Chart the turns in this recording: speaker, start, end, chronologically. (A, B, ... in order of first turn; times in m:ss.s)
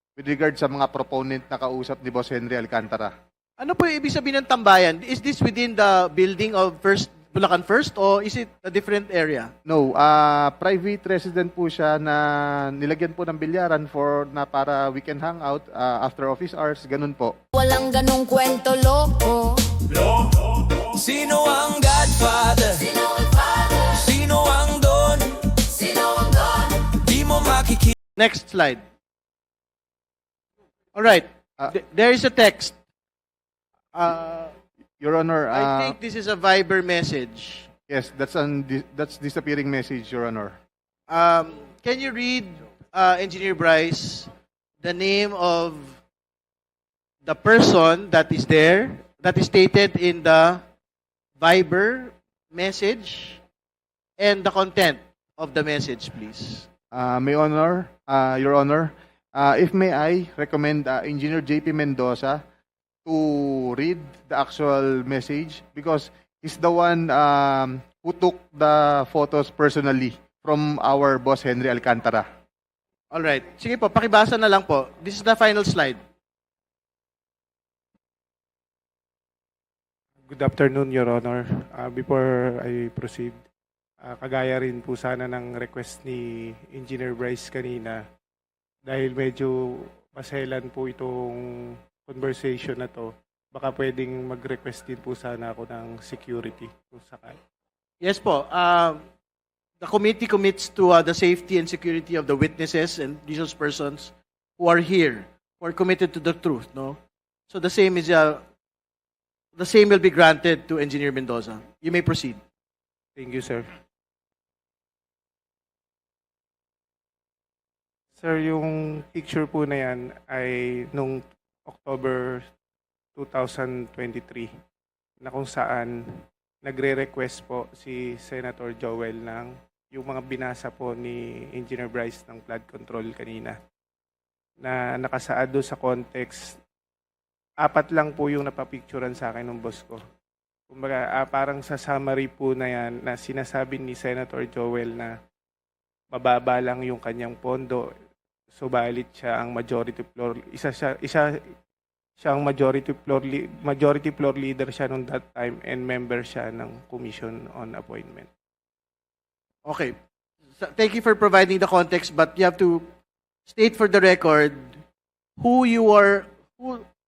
0:00.2-0:03.1 A
0:03.6-0:09.5 B
0:09.7-0:17.3 A
0:17.5-0:19.6 C
0:20.9-0:27.9 D
0:28.2-0:28.8 B
0:30.9-0:32.8 B
0:33.9-0:34.5 B
0:35.0-0:35.9 A
0:35.5-0:37.7 B
0:37.9-0:40.6 A
0:41.1-0:44.3 B
0:44.8-0:46.0 B
0:47.2-0:50.6 B
0:51.4-0:53.4 B
0:54.2-0:56.7 B
0:56.9-1:02.4 A
1:03.1-1:12.3 A
1:13.1-1:16.0 B
1:20.3-1:23.4 E
1:24.0-1:28.0 E
1:28.9-1:31.4 E
1:32.0-1:37.4 E
1:38.0-1:39.0 B
1:39.8-1:47.0 B
1:47.5-1:48.4 B
1:49.6-1:52.4 B
1:53.2-1:53.7 E
1:58.2-2:02.5 E
2:03.2-2:04.5 E
2:05.2-2:06.0 E
2:06.6-2:13.6 E
2:14.6-2:16.4 E
2:17.6-2:20.0 E
2:20.7-2:25.1 E
2:26.1-2:27.9 E
2:28.5-2:31.3 E
2:32.2-2:38.3 E
2:39.6-2:39.9 B
2:40.6-2:42.9 B
2:43.5-2:44.8 B
2:45.4-2:46.8 B